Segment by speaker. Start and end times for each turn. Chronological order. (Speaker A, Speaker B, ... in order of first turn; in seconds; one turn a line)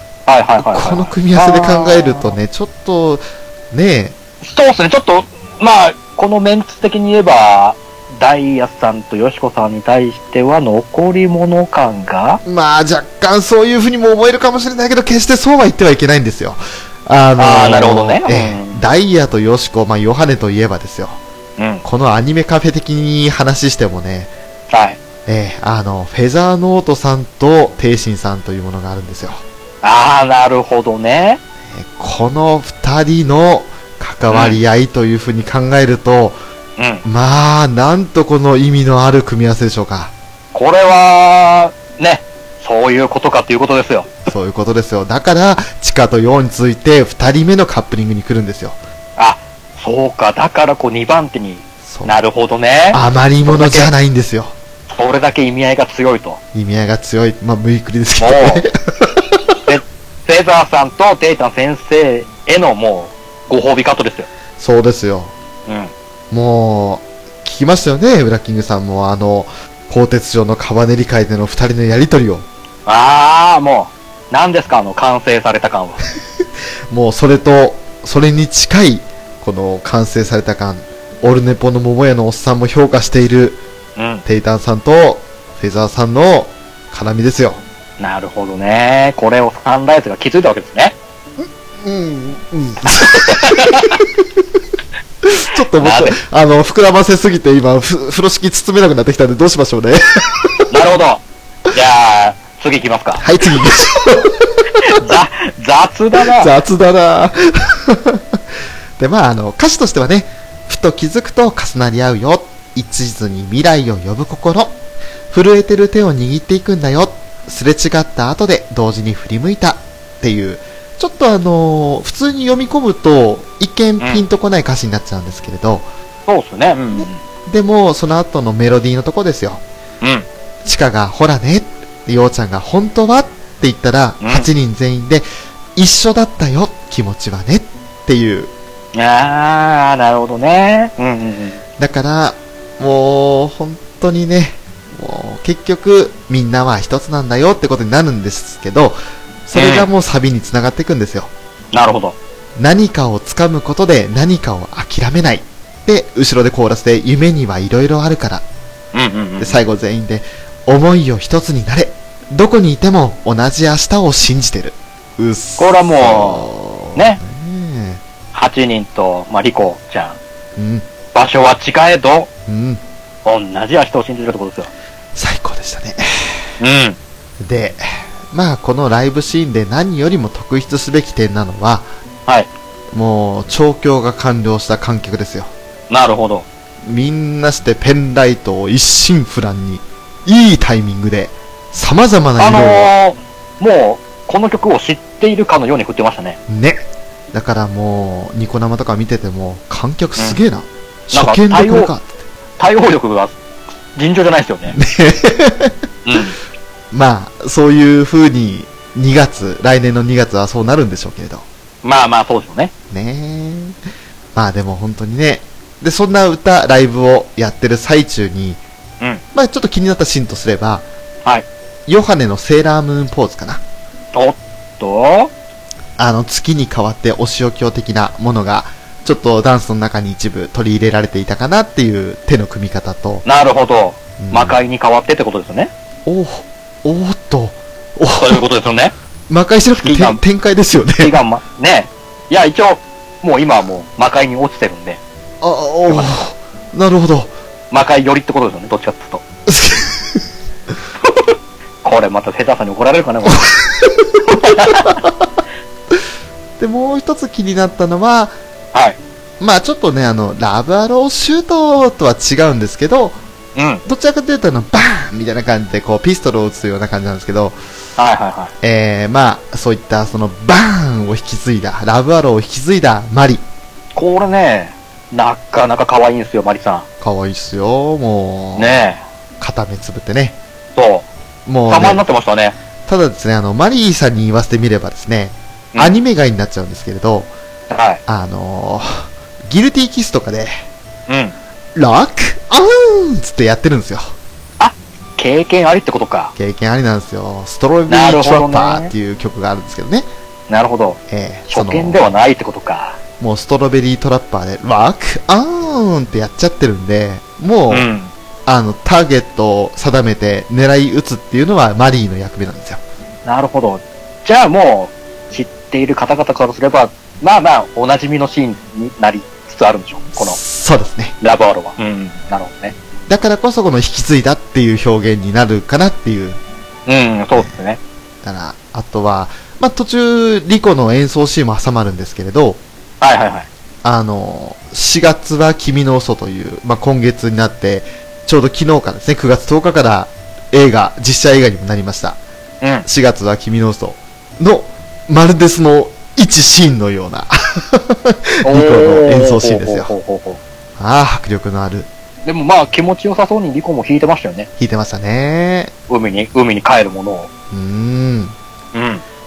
Speaker A: 0.3-2.3
Speaker B: 0.6-4.2
Speaker A: 4.4-12.4
Speaker B: 12.4-21.2
Speaker A: 17.4-18.8
Speaker A: 21.6-21.8
Speaker B: 21.8-24.3
Speaker A: 24.7-25.0
Speaker B: 25.2-29.4
Speaker A: 29.8-31.4
Speaker B: 31.7-36.4
Speaker A: 34.3-34.6
Speaker A: 36.8-37.0
Speaker B: 37.0-40.1
Speaker A: 40.5-44.1
Speaker B: 44.3-48.8
Speaker A: 49.2-53.9
Speaker B: 51.8-52.2
Speaker B: 52.9-54.5
Speaker A: 54.9-56.4
Speaker B: 56.5-59.6
Speaker A: 58.2-58.6
Speaker A: 59.6-64.3
Speaker B: 64.6-65.3
Speaker A: 65.7-65.9
Speaker B: 66.3-72.5
Speaker A: 72.8-76.0
Speaker B: 76.9-83.6
Speaker A: 84.0-84.2
Speaker B: 84.2-87.6
Speaker A: 88.0-90.9
Speaker B: 91.4-94.2
Speaker A: 92.8-94.0
Speaker B: 95.2-100.7
Speaker A: 95.8-96.2
Speaker A: 100.7-103.3
Speaker B: 103.2-105.1
Speaker A: 104.9-106.5
Speaker B: 106.2-108.4
Speaker B: 109.0-114.8
Speaker B: 115.3-125.9
Speaker A: 124.0-124.2
Speaker A: 126.3-127.2
Speaker B: 126.9-129.6
Speaker A: 130.0-130.3
Speaker B: 130.6-138.5
Speaker A: 134.2-134.5
Speaker A: 138.9-141.6
Speaker B: 141.8-151.3
Speaker A: 149.5-149.9
Speaker A: 151.7-152.2
Speaker B: 152.6-158.4
Speaker A: 158.9-159.6
Speaker B: 159.4-168.0
Speaker A: 165.6-167.2
Speaker A: 168.3-170.2
Speaker B: 170.6-170.9
Speaker A: 171.1-172.3
Speaker B: 172.5-172.8
Speaker A: 173.2-174.7
Speaker B: 175.1-176.5
Speaker A: 176.6-177.0
Speaker B: 177.4-181.9
Speaker B: 182.9-185.5
Speaker A: 185.9-186.4
Speaker B: 186.8-192.9
Speaker A: 192.4-196.4
Speaker B: 196.5-196.8
Speaker B: 197.3-202.2
Speaker A: 201.1-201.9
Speaker A: 202.6-203.4
Speaker A: 203.9-204.8
Speaker B: 204.7-205.7
Speaker A: 206.0-206.3
Speaker B: 206.9-211.4
Speaker A: 211.8-212.7
Speaker B: 212.9-213.8
Speaker B: 214.3-218.6
Speaker B: 219.3-220.8
Speaker B: 221.9-223.6
Speaker A: 224.1-225.3
Speaker B: 226.0-233.2
Speaker A: 233.2-235.7
Speaker B: 234.2-234.6
Speaker B: 236.1-238.4
Speaker A: 238.2-238.9
Speaker B: 239.3-241.2
Speaker A: 239.8-240.2
Speaker A: 241.0-245.0
Speaker B: 245.4-247.3
Speaker A: 245.9-246.2
Speaker A: 247.7-249.2
Speaker B: 249.5-250.2
Speaker A: 251.0-253.5
Speaker B: 253.3-255.3
Speaker A: 254.4-255.0
Speaker B: 256.6-258.4
Speaker B: 259.4-263.2
Speaker A: 263.5-263.8
Speaker B: 263.8-267.6
Speaker A: 268.0-268.5
Speaker B: 268.6-273.4
Speaker A: 273.9-276.8
Speaker B: 277.0-278.8
Speaker A: 278.6-279.0
Speaker B: 279.4-280.4
Speaker A: 280.7-281.1
Speaker B: 281.4-282.0
Speaker A: 281.7-282.6
Speaker B: 282.9-287.3
Speaker A: 287.7-288.0
Speaker B: 288.1-290.6
Speaker A: 291.1-291.4
Speaker B: 291.7-294.1
Speaker A: 294.6-296.3
Speaker B: 296.4-300.1
Speaker A: 297.9-298.9
Speaker A: 300.5-303.0
Speaker B: 301.1-302.1
Speaker B: 303.2-307.9
Speaker A: 307.7-308.1
Speaker B: 308.4-312.8
Speaker A: 313.2-320.4
Speaker B: 320.1-321.1
Speaker A: 321.2-322.7
Speaker B: 323.1-326.4
Speaker A: 326.9-327.8
Speaker B: 328.2-332.6
Speaker A: 333.0-333.5
Speaker B: 333.8-342.2
Speaker A: 342.6-342.9
Speaker B: 342.8-349.9
Speaker A: 348.4-350.4
Speaker B: 350.8-351.9
Speaker A: 352.2-354.5
Speaker B: 354.6-355.7
Speaker A: 355.9-357.3
Speaker B: 357.5-358.4
Speaker A: 358.7-359.0